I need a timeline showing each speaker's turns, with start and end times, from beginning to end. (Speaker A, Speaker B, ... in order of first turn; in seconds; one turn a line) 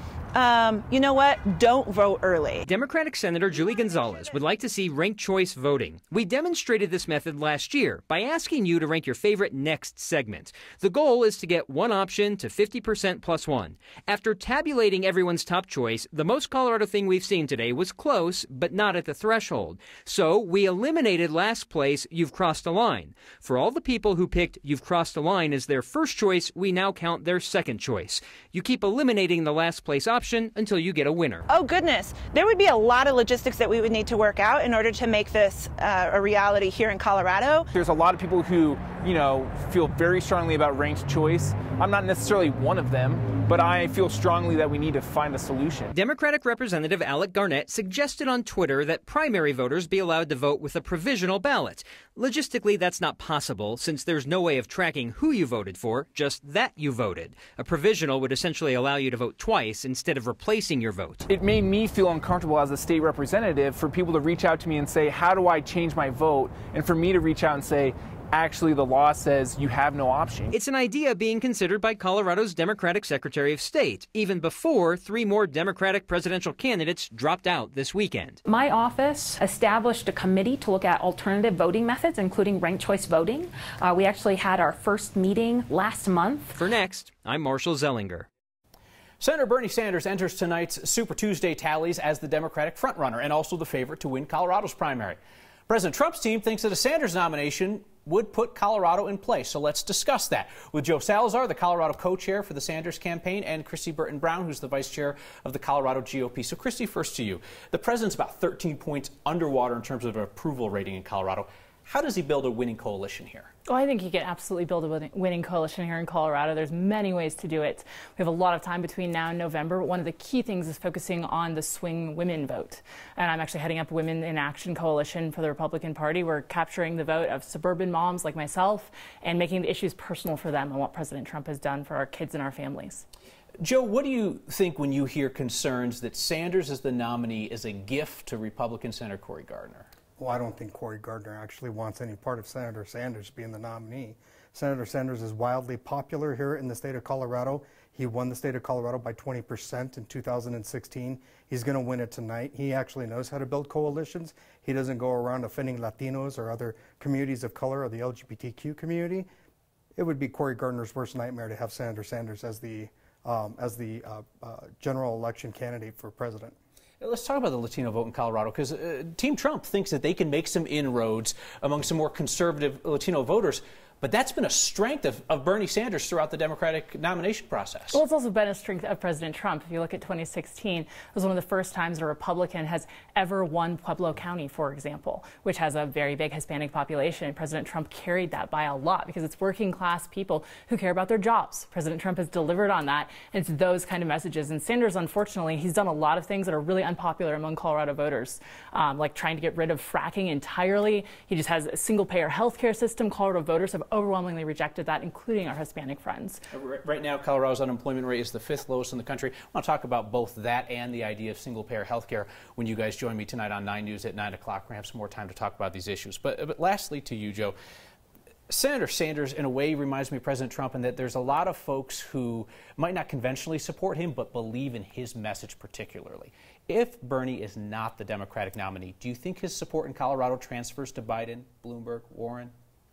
Speaker A: 0.4-2.6
Speaker B: 2.7-31.5
Speaker A: 31.5-37.6
Speaker C: 37.7-45.9
Speaker B: 45.9-61.2
Speaker C: 61.3-70.5
Speaker B: 70.5-78.4
Speaker D: 78.5-86.6
Speaker B: 86.5-88.2
Speaker E: 89.2-113.5
Speaker F: 113.7-133.0
Speaker E: 133.6-139.9
Speaker G: 140.2-159.2
Speaker G: 159.9-166.5
Speaker E: 167.0-178.0
Speaker F: 177.9-206.4
Speaker E: 206.5-217.5
Speaker E: 218.5-232.5